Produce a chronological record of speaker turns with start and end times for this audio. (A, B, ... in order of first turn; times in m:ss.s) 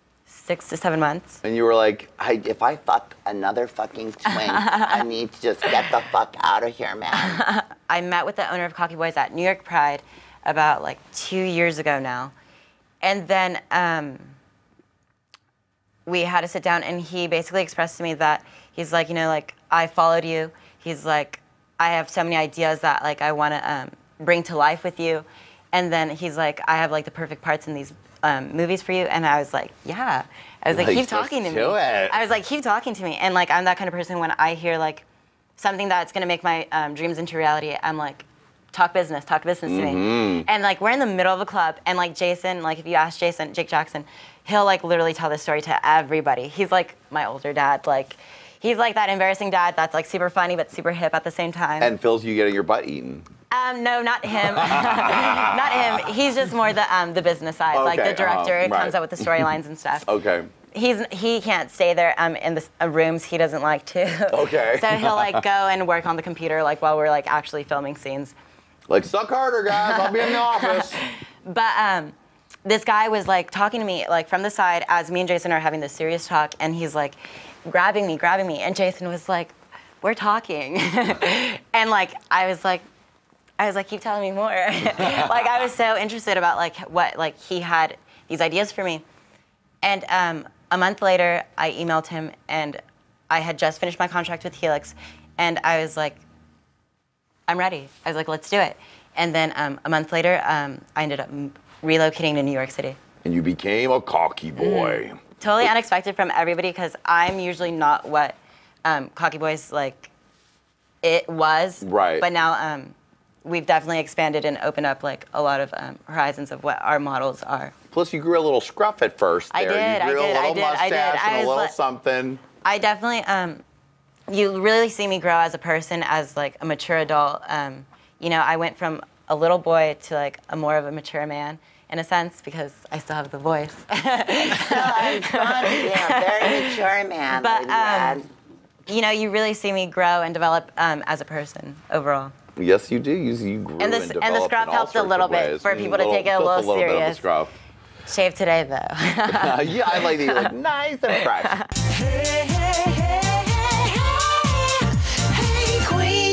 0:00.3-0:01.4 A
0:01.4-0:06.4 B
0:04.2-0:07.4 C
0:04.3-0:05.0 A
0:07.1-0:12.3 A
0:13.0-0:14.3 A
0:16.0-0:35.0 A
0:30.7-0:32.2 B
0:35.6-0:51.9 A
0:39.6-0:40.5 B
0:51.8-0:53.2 B
0:53.5-1:00.1 A
0:54.4-0:56.0 B
0:57.7-0:59.5 B
1:00.0-1:00.5 B
1:00.7-1:08.3 A
1:04.3-1:05.4 B
1:08.9-1:11.0 B
1:09.7-1:22.8 A
1:23.6-1:29.0 A
1:25.0-1:25.4 B
1:29.8-1:36.2 A
1:37.5-1:43.0 A
1:43.2-1:45.7 B
1:44.6-1:50.1 A
1:51.0-1:57.7 A
1:51.8-1:52.3 B
1:57.9-2:02.4 B
1:59.5-2:01.7 A
2:02.6-2:03.6 A
2:04.3-2:18.2 A
2:14.6-2:18.2 B
2:14.7-2:18.2 C
2:18.9-2:22.3 A
2:22.6-2:27.5 B
2:23.8-2:27.2 A
2:28.0-2:30.5 A
2:29.3-2:31.6 B
2:31.1-2:31.7 A
2:35.8-2:36.1 A